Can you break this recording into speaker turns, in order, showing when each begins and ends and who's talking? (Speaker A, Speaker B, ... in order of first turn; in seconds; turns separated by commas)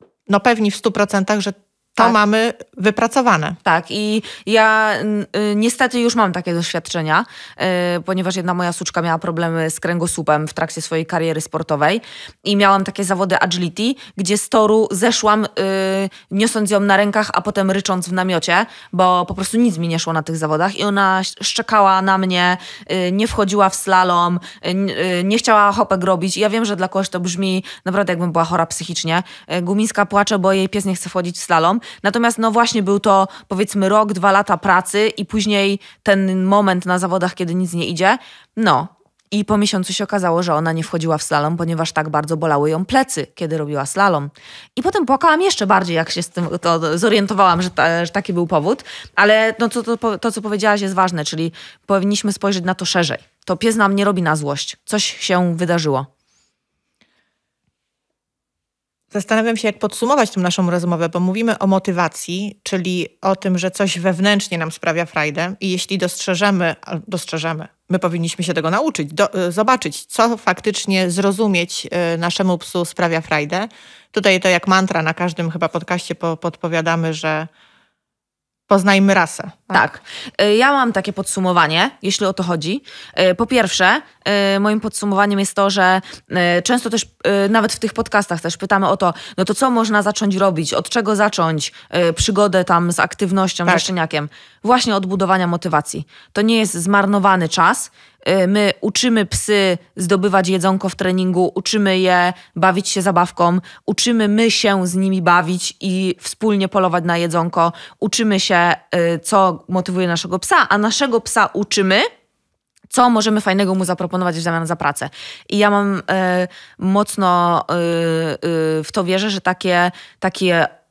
Speaker A: 0.3-3.6, Speaker B: 3.6-56.1, Speaker A: 59.1-77.5, Speaker A: 78.7-79.8, Speaker B: 79.7-112.1, Speaker A: 93.6-93.9, Speaker B: 112.9-120.7